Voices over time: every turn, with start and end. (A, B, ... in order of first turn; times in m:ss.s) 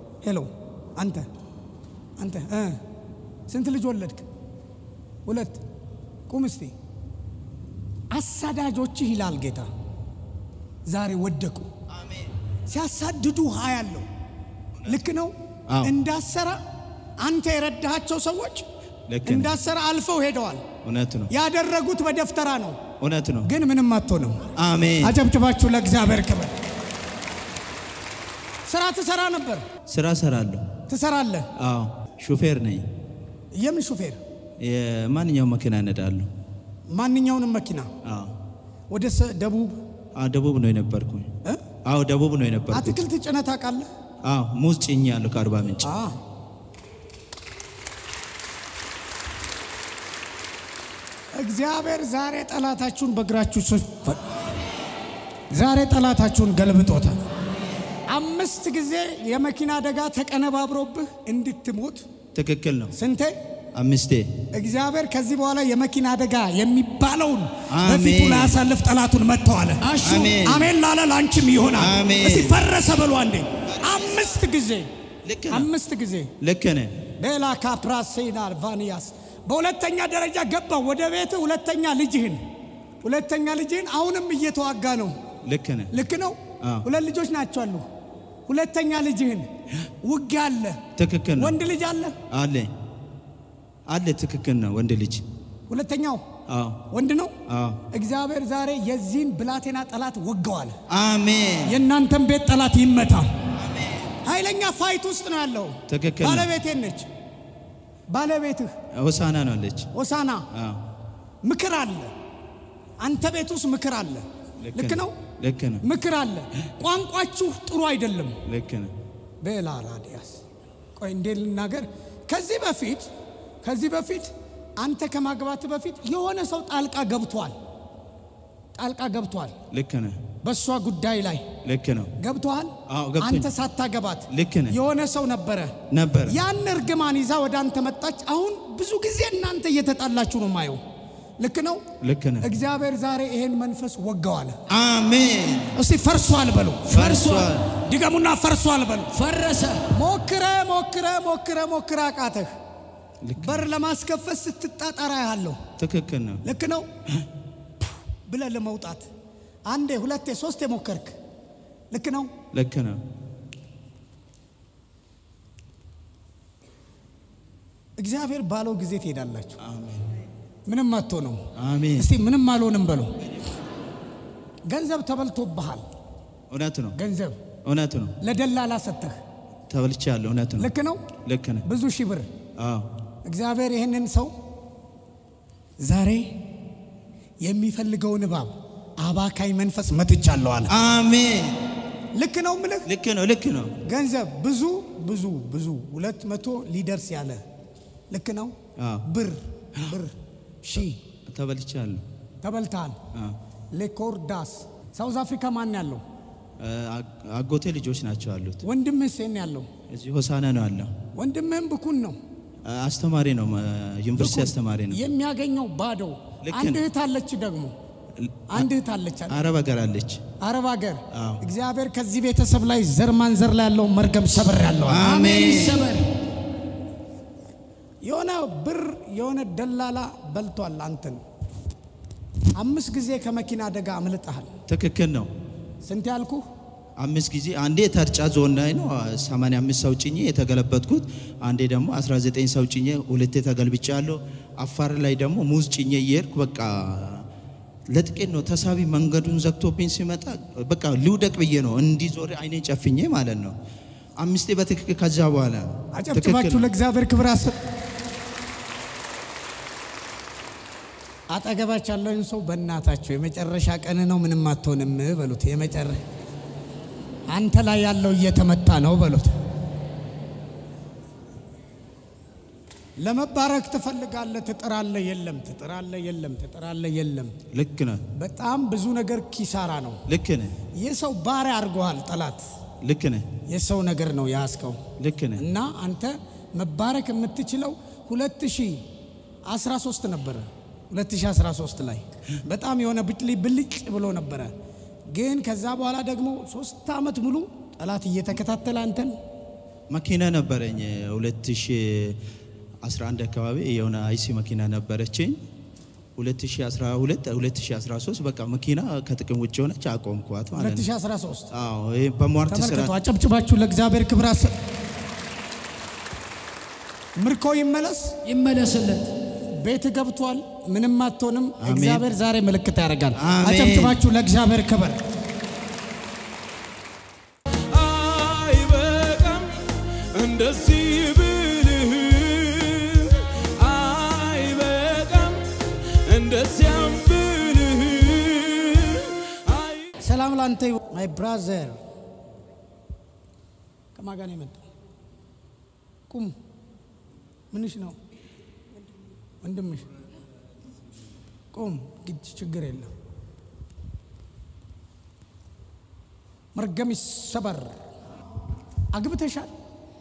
0:00.2-0:01.3 A
0:02.2-0:02.8 A
0:03.5-0:04.2 A
0:05.2-0:05.6 A
0:06.3-0:06.7 A
0:08.1-0:09.7 A
0:10.8-0:11.7 A
0:12.0-0:12.3 B
0:12.7-0:14.0 A
0:14.8-0:16.6 A
0:17.2-0:18.6 A
0:19.1-0:19.5 B
0:19.2-0:20.6 A
0:20.8-0:21.3 B
0:21.3-0:22.8 A
0:23.0-0:23.5 B
0:23.4-0:24.5 A
0:24.6-0:25.1 B
0:25.0-0:26.5 A
0:28.6-0:29.6 A
0:29.9-0:30.6 B
0:30.9-0:31.5 A
0:31.6-0:32.8 B
0:33.5-0:34.2 A
0:34.6-0:36.3 B
0:36.9-0:37.9 A
0:38.0-0:38.3 B
0:38.9-0:39.8 A
0:40.2-0:41.3 B
0:41.8-0:43.0 B
0:42.7-0:43.9 A
0:44.2-0:45.9 B
0:45.8-0:46.2 A
0:51.3-0:54.2 A
0:55.5-0:57.2 A
0:58.1-1:02.1 A
1:02.3-1:02.9 B
1:02.9-1:03.4 A
1:03.7-1:04.3 B
1:04.5-1:14.9 A
1:07.7-1:08.6 B
1:09.9-1:10.2 C
1:09.9-1:10.7 B
1:11.8-1:12.6 B
1:13.7-1:14.2 B
1:15.2-1:15.7 B
1:15.5-1:16.3 A
1:16.4-1:17.0 B
1:17.2-1:22.4 A
1:23.0-1:25.2 A
1:25.4-1:25.9 B
1:25.9-1:27.8 A
1:28.5-1:29.5 A
1:30.0-1:30.8 A
1:31.0-1:31.5 B
1:31.4-1:32.2 A
1:32.3-1:32.7 B
1:33.9-1:35.2 B
1:35.7-1:36.2 A
1:36.5-1:36.8 B
1:36.9-1:37.3 A
1:37.5-1:37.8 B
1:37.9-1:40.8 A
1:40.9-1:41.8 B
1:41.6-1:43.3 A
1:43.6-1:44.1 B
1:44.2-1:47.1 A
1:45.9-1:46.5 B
1:48.1-1:48.7 A
1:48.9-1:49.9 B
1:49.9-1:50.4 A
1:50.5-1:50.8 B
1:51.4-1:52.1 A
1:53.0-1:55.2 A
1:54.6-1:55.8 B
1:55.8-1:58.4 A
1:58.5-1:58.9 B
1:59.4-2:00.4 A
2:01.0-2:03.1 A
2:03.6-2:07.5 A
2:08.8-2:09.5 A
2:09.7-2:10.2 B
2:10.4-2:11.4 A
2:11.6-2:12.1 B
2:12.2-2:15.7 A
2:12.9-2:13.5 B
2:14.3-2:14.8 B
2:15.9-2:16.4 B
2:16.2-2:20.8 A
2:21.4-2:21.8 A
2:22.0-2:22.4 B
2:22.4-2:24.6 A
2:24.7-2:25.7 B
2:25.7-2:27.1 A
2:26.9-2:27.7 B
2:27.0-2:27.5 C
2:27.7-2:29.2 A
2:29.1-2:29.9 C
2:29.9-2:32.6 A
2:33.2-2:33.7 B
2:33.4-2:35.6 A
2:35.8-2:36.4 B
2:36.4-2:36.9 A
2:38.2-2:39.1 A
2:39.7-2:41.2 A
2:41.9-2:42.3 A
2:42.5-2:43.0 B
2:48.0-2:49.6 A
2:49.6-2:50.1 B
2:50.6-2:51.4 A
2:51.6-2:52.1 B
2:52.0-2:53.1 A
2:54.7-2:55.8 A
2:56.5-2:57.0 B
2:56.9-2:57.4 A
2:57.6-2:58.1 B
2:58.2-2:59.2 A
2:59.7-3:00.7 B
3:00.6-3:01.0 A
3:01.2-3:01.6 B
3:01.6-3:02.3 A
3:02.6-3:02.8 B
3:03.2-3:04.3 A
3:05.8-3:06.3 A
3:07.4-3:10.7 A
3:10.7-3:11.6 B
3:12.1-3:12.9 A
3:12.8-3:13.8 B
3:13.8-3:17.4 A
3:18.1-3:21.0 A
3:18.8-3:19.0 B
3:21.3-3:22.0 B
3:22.4-3:23.0 A
3:23.7-3:26.0 A
3:26.6-3:28.6 B
3:28.6-3:29.7 A
3:29.9-3:30.9 B
3:31.1-3:32.2 A
3:32.6-3:35.0 B
3:34.2-3:37.7 A
3:36.4-3:36.8 B
3:38.2-3:38.7 B
3:38.5-3:39.4 A
3:39.3-3:40.2 B
3:40.4-3:45.2 A
3:41.1-3:41.4 B
3:44.9-3:45.9 B
3:45.1-3:46.0 C
3:48.0-3:51.2 A
3:52.5-3:54.5 A
3:54.7-3:55.3 B
3:55.8-3:56.5 A
3:57.0-4:07.3 B
4:07.9-4:13.5 B
4:14.2-4:16.7 B
4:15.9-4:17.6 A
4:21.3-4:26.0 A
4:27.3-4:29.3 A
4:33.0-4:37.4 A
4:37.5-4:38.0 B
4:38.1-4:40.0 A
4:40.1-4:40.6 B
4:40.7-4:42.4 A
4:42.8-4:43.3 B
4:43.5-4:44.8 A
4:45.0-4:45.4 B
4:45.4-4:48.8 A
4:49.4-4:54.5 A
4:55.1-4:59.2 A
4:59.9-5:02.2 B
5:02.8-5:05.4 B
5:06.2-5:10.9 B
5:10.5-5:11.5 A
5:11.5-5:12.9 B
5:12.5-5:14.5 A
5:17.2-5:18.2 A
5:18.2-5:19.1 C
5:19.5-5:25.0 A
5:21.6-5:22.1 B
5:23.2-5:24.0 B
5:27.7-5:39.8 B
5:40.0-5:41.8 A
5:43.9-5:44.6 A
5:46.1-5:46.3 A
5:47.5-5:48.0 A
5:49.4-5:49.9 A
5:51.5-5:52.9 A
5:56.5-5:57.8 A
5:58.9-5:59.5 A